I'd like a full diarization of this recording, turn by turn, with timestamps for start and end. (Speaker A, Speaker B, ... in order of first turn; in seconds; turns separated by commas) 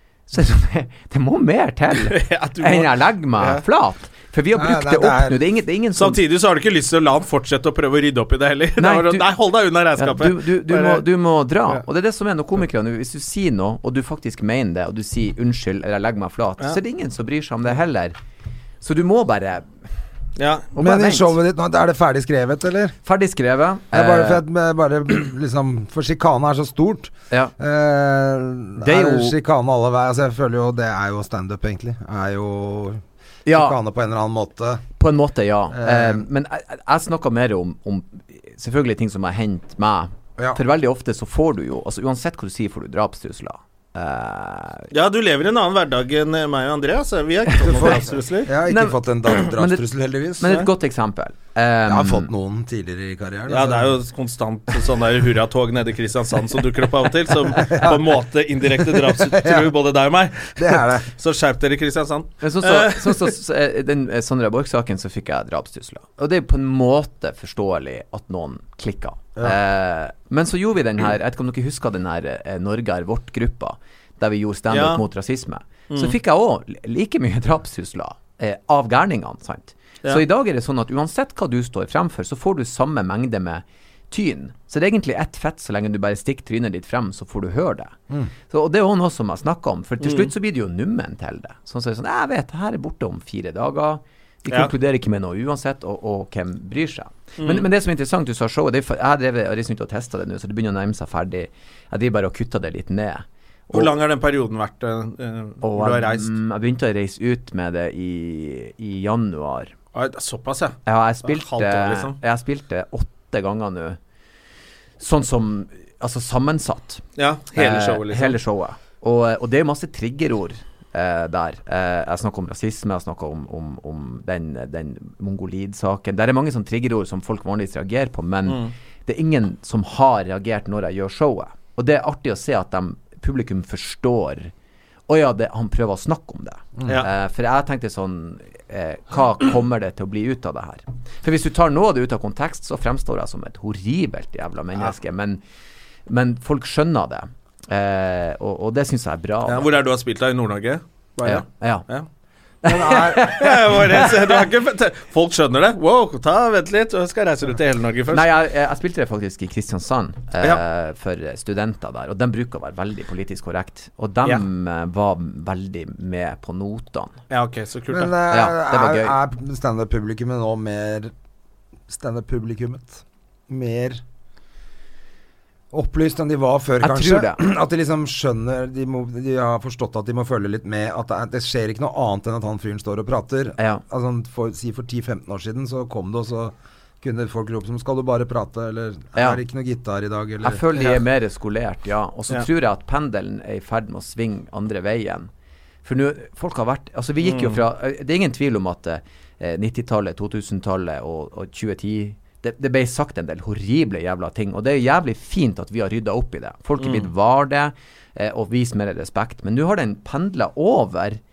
Speaker A: 0.3-6.2, Speaker B: 2.0-3.6, Speaker C: 4.5-5.4, Speaker B: 6.0-11.0, Speaker A: 8.8-9.3, Speaker A: 10.0-18.1, Speaker A: 18.8-19.7, Speaker B: 20.4-20.7, Speaker A: 20.8-21.4, Speaker C: 20.8-22.9, Speaker A: 23.1-24.4, Speaker C: 23.9-34.8, Speaker A: 28.8-29.4, Speaker A: 33.5-33.8, Speaker A: 35.0-44.9, Speaker C: 35.7-36.2, Speaker B: 44.9-48.5, Speaker C: 47.6-50.6, Speaker A: 48.7-49.8, Speaker A: 50.4-52.3, Speaker C: 51.9-53.9, Speaker B: 53.5-63.3, Speaker C: 57.7-58.0, Speaker C: 59.0-59.7, Speaker C: 60.6-61.1, Speaker A: 62.4-88.0, Speaker B: 74.7-75.0, Speaker B: 75.9-76.2, Speaker A: 88.5-103.9, Speaker B: 90.0-90.3, Speaker B: 97.4-97.7, Speaker B: 103.7-106.3, Speaker A: 105.6-109.7, Speaker B: 109.9-112.2, Speaker A: 110.9-114.0, Speaker A: 115.0-117.0, Speaker B: 117.2-118.4, Speaker A: 117.5-134.5, Speaker B: 128.5-128.7, Speaker A: 135.1-145.4, Speaker A: 146.1-149.7, Speaker B: 149.5-152.1, Speaker A: 151.2-151.9, Speaker C: 152.6-153.3, Speaker A: 152.6-154.1, Speaker B: 153.2-158.3, Speaker A: 158.1-167.1, Speaker B: 167.3-168.2, Speaker C: 167.9-171.1, Speaker A: 168.3-169.2, Speaker C: 171.9-174.0, Speaker C: 175.7-190.6, Speaker A: 176.8-177.4, Speaker A: 189.2-189.4, Speaker A: 190.4-195.3, Speaker A: 195.8-211.2, Speaker B: 197.2-197.6, Speaker B: 206.8-207.1